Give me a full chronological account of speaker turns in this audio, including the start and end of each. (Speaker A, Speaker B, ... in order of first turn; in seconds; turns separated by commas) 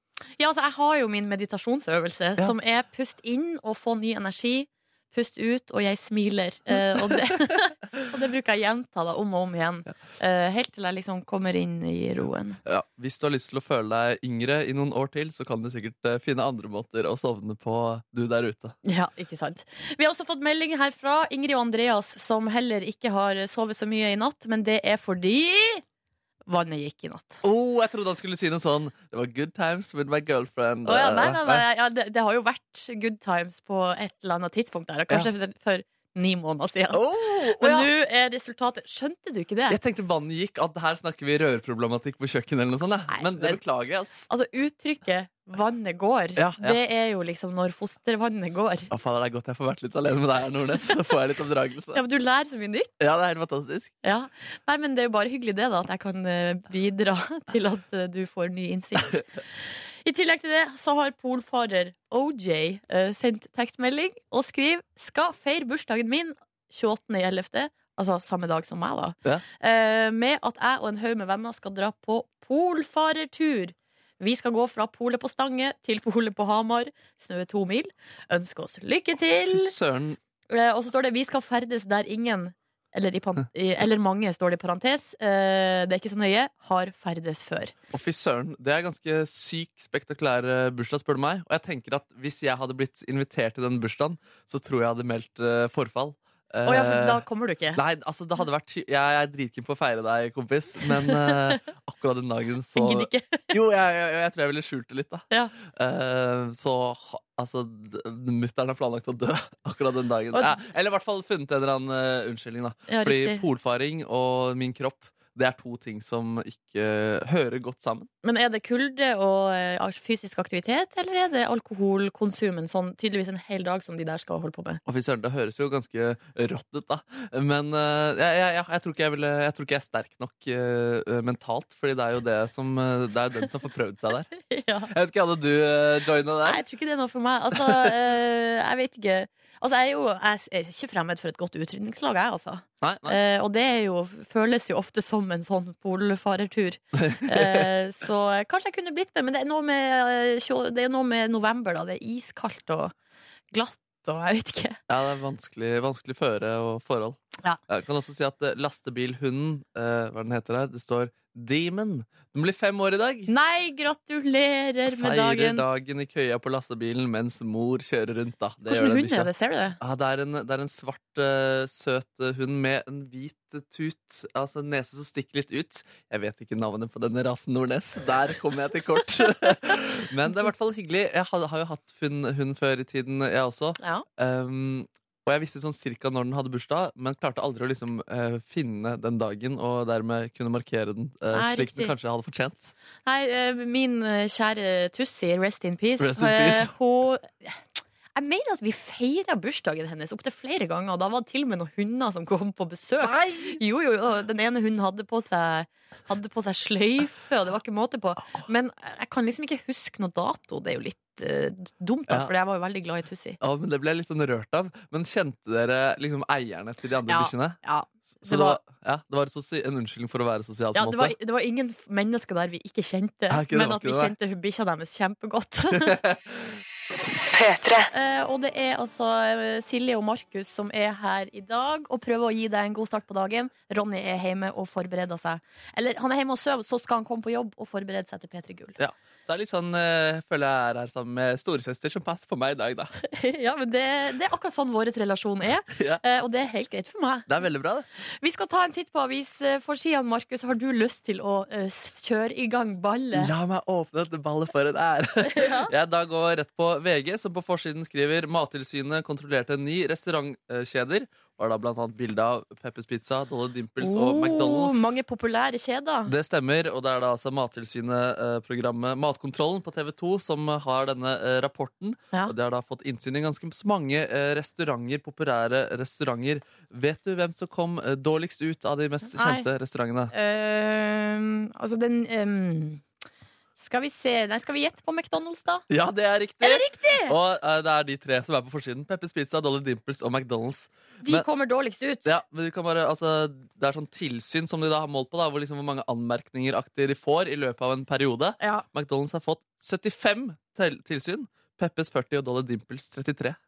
Speaker A: 0.4-12.6, Speaker B: 12.7-18.8, Speaker A: 18.9-25.8, Speaker A: 26.5-27.4, Speaker B: 27.4-31.6, Speaker A: 30.9-37.0, Speaker B: 36.9-37.9, Speaker A: 37.6-39.8, Speaker B: 39.7-44.3, Speaker A: 43.1-43.6, Speaker A: 44.3-48.9, Speaker B: 46.4-46.8, Speaker B: 48.9-52.0, Speaker A: 51.9-52.9, Speaker B: 53.0-53.9, Speaker A: 54.0-59.3, Speaker A: 60.0-79.7, Speaker B: 79.5-80.2, Speaker A: 80.5-87.7, Speaker B: 87.9-97.2, Speaker A: 96.7-97.8, Speaker B: 97.8-118.1, Speaker A: 100.9-101.6, Speaker A: 102.8-103.5, Speaker A: 112.9-113.4, Speaker A: 118.2-124.8, Speaker B: 124.9-134.3, Speaker A: 134.5-134.9, Speaker B: 134.9-136.6, Speaker A: 136.4-152.9, Speaker B: 142.8-143.2, Speaker B: 147.0-147.7, Speaker A: 153.5-154.8, Speaker B: 154.9-163.3, Speaker A: 163.3-165.6, Speaker B: 164.9-192.7, Speaker A: 168.7-169.8, Speaker A: 183.8-184.1, Speaker A: 191.3-191.9, Speaker A: 193.1-213.4, Speaker B: 196.0-196.7, Speaker B: 203.0-203.6, Speaker B: 213.4-217.6, Speaker A: 217.1-218.6, Speaker B: 218.2-221.2, Speaker A: 220.8-226.0, Speaker B: 223.3-224.1, Speaker B: 225.7-226.6, Speaker A: 227.9-238.8, Speaker B: 238.8-242.9, Speaker A: 243.0-247.3, Speaker B: 245.7-246.0, Speaker B: 247.3-247.9, Speaker A: 248.2-253.3, Speaker B: 253.1-264.8, Speaker A: 255.2-255.7, Speaker A: 263.8-266.1, Speaker B: 266.1-280.1, Speaker A: 279.1-279.5, Speaker A: 280.1-282.8, Speaker A: 283.6-285.6, Speaker B: 285.7-291.3, Speaker A: 286.4-287.2, Speaker A: 291.0-292.2, Speaker B: 292.1-303.4, Speaker A: 298.4-298.6